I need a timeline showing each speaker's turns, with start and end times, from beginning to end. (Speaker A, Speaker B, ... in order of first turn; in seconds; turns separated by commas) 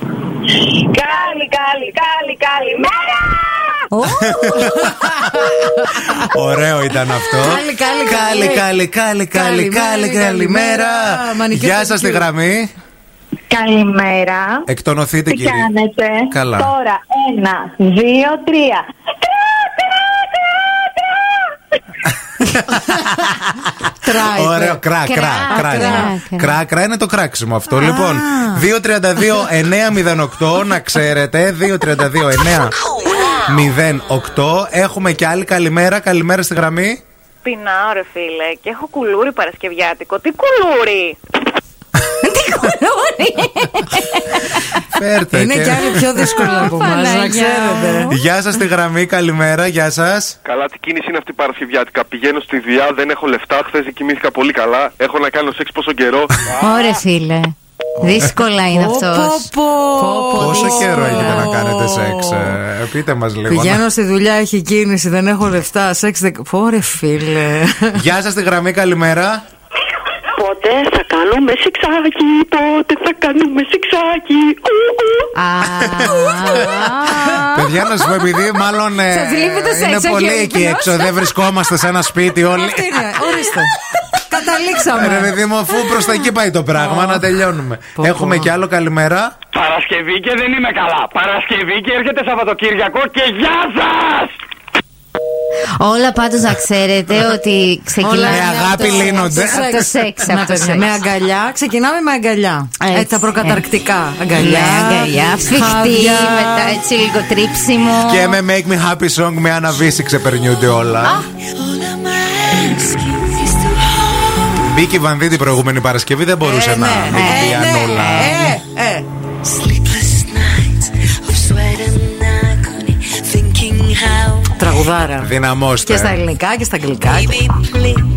Speaker A: 0.6-3.7, Speaker B: 3.9-4.3, Speaker C: 4.1-12.7, Speaker D: 4.6-5.2, Speaker D: 5.9-6.2, Speaker D: 7.3-8.7, Speaker D: 9.3-12.2, Speaker A: 13.5-14.6, Speaker C: 14.7-15.7, Speaker A: 15.3-21.4, Speaker C: 16.3-16.7, Speaker C: 22.4-32.7, Speaker D: 24.0-24.8, Speaker B: 25.0-26.6, Speaker D: 25.5-26.1, Speaker D: 27.7-28.6, Speaker C: 33.3-37.0, Speaker E: 37.4-41.2, Speaker B: 42.2-44.8, Speaker C: 44.9-46.6, Speaker D: 45.3-48.1, Speaker B: 46.2-48.1, Speaker C: 48.1-50.4, Speaker F: 50.4-56.8, Speaker B: 56.6-61.5, Speaker D: 58.7-62.5, Speaker C: 60.3-63.8, Speaker D: 63.5-67.9, Speaker C: 67.9-69.4, Speaker G: 70.3-75.3, Speaker B: 75.4-77.8, Speaker C: 75.6-83.4, Speaker D: 76.8-77.4, Speaker D: 79.1-80.2, Speaker B: 80.1-81.1, Speaker D: 82.4-83.7, Speaker D: 84.2-85.3, Speaker C: 84.9-89.3, Speaker D: 86.7-87.2, Speaker D: 88.0-88.5, Speaker H: 89.5-94.3, Speaker B: 95.8-100.9, Speaker D: 98.0-106.8, Speaker C: 98.2-99.8, Speaker B: 102.8-103.6, Speaker B: 104.3-108.4, Speaker C: 108.0-111.2, Speaker D: 112.1-113.9, Speaker C: 114.5-118.5, Speaker D: 116.4-125.3, Speaker B: 117.1-117.7, Speaker C: 125.2-126.2, Speaker D: 125.8-128.0